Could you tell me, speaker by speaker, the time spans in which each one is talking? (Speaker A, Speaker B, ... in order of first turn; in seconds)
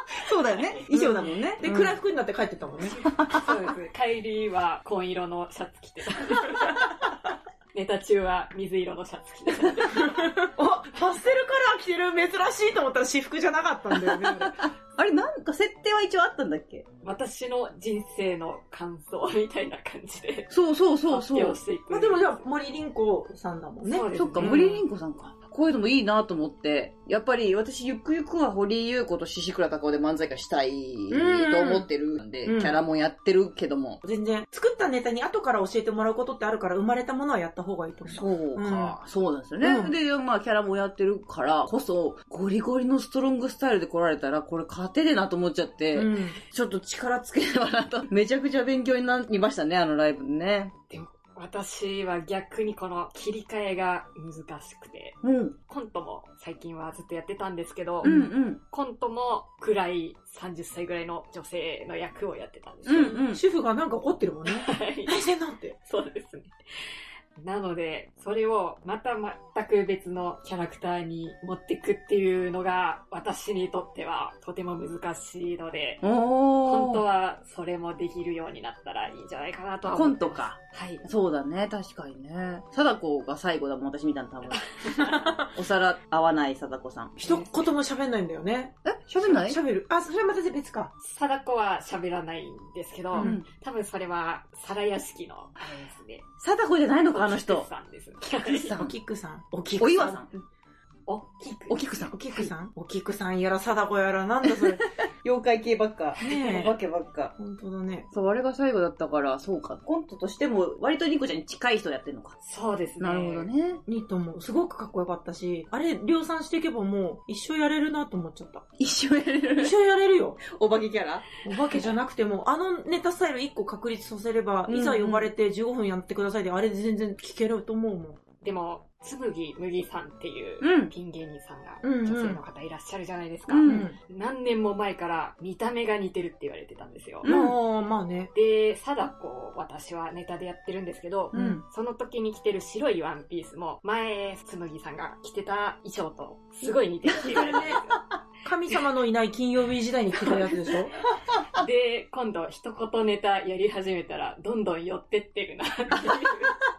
Speaker A: 0.2-1.9, 3.0-3.5, 13.9-16.9, 20.5-21.6, 24.1-34.0, 38.1-50.7, 55.2-55.5, 58.0-58.6, 62.9-63.4, 76.0-77.0, 79.9-87.3, 88.8-89.6, 93.2-93.5, 96.4-97.7, 98.2-98.9, 99.8-100.3, 101.7-102.2, 104.5-107.3, 108.1-112.4, 113.0-113.8, 118.8-119.7, 120.4-121.3, 124.7-125.3, 130.6-130.9, 133.5-133.9, 137.2-137.5, 141.3-141.6, 147.1-148.0, 151.3-151.6
Speaker B: 0.9-3.0, 9.9-14.6, 21.9-24.8, 31.1-31.9, 32.4-32.8, 34.0-39.0, 39.6-40.0, 45.9-46.4, 58.0-58.3, 63.3-65.8, 85.0-85.5, 87.2-90.9, 93.1-93.4, 98.8-100.2, 102.1-104.8, 106.2-106.8, 107.3-108.1, 113.8-118.7, 119.6-120.4, 121.4-128.2, 131.8-132.4, 133.6-134.0, 137.2-138.3, 141.3-141.6, 147.3-147.8, 148.4-150.9
Speaker C: 2.8-7.0, 7.7-10.3, 17.0-20.5, 21.1-22.4, 23.8-24.8, 50.9-63.2, 64.5-65.2, 65.8-66.5, 67.3-76.0, 76.6-81.0, 84.5-85.1, 91.0-96.3, 97.1-98.8, 101.1-102.5, 112.4-113.5, 128.4-137.3, 138.3-148.0, 151.5-156.6